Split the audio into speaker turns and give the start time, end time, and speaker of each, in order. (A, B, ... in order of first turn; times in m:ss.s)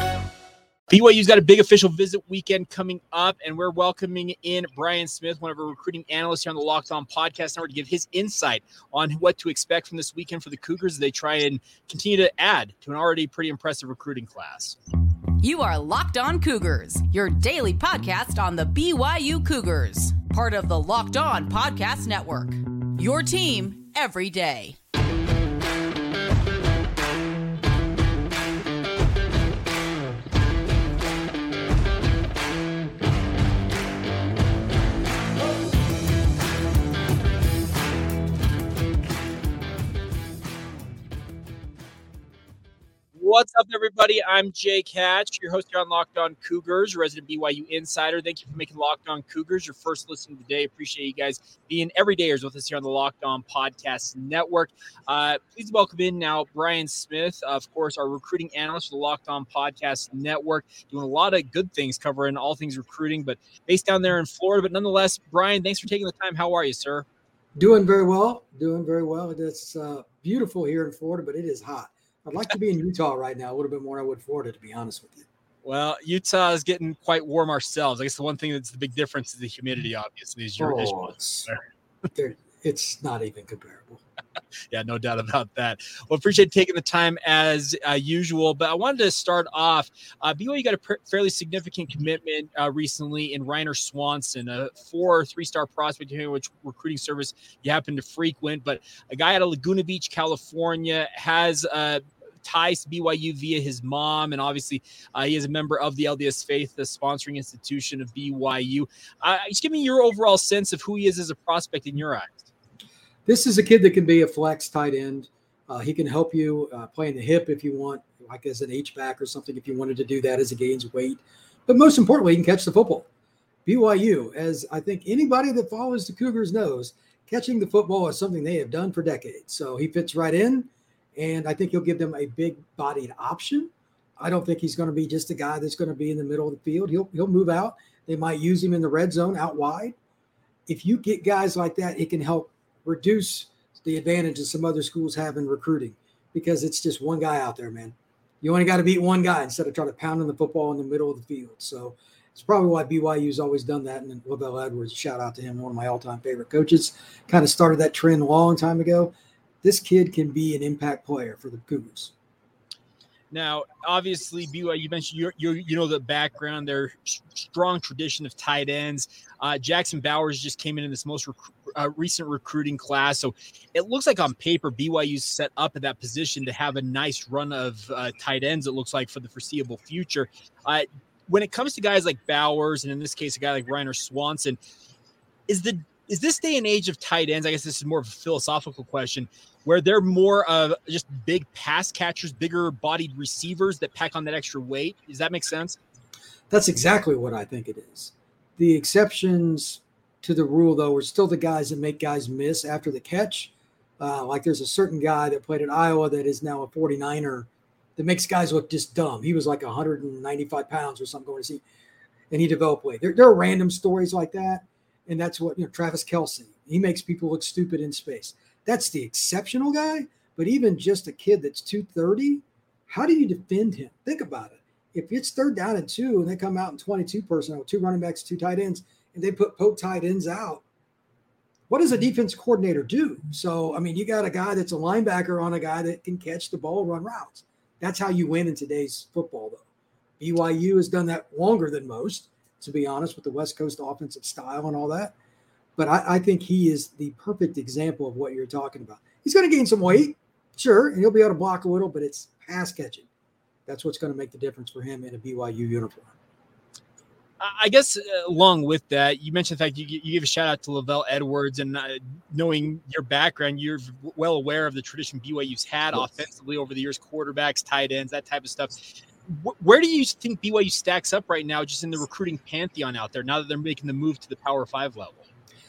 0:00.9-0:14.8 A
0:15.4-0:24.8 B
0:43.2-1:07.1 A
1:07.6-1:15.3 C
1:15.6-1:21.6 A
1:20.6-1:21.5 C
1:22.2-1:24.0 C
1:24.7-1:52.5 A
1:53.3-2:03.1 C
2:03.7-2:20.0 C
2:20.7-2:42.1 C
2:43.3-3:04.6 A
3:05.5-3:15.8 A
3:16.5-3:31.6 C
3:32.3-3:50.6 C
3:51.7-3:59.6 C
4:00.2-4:05.1 C
4:05.8-4:13.1 C
4:13.7-4:16.1 C
4:17.4-4:35.3 A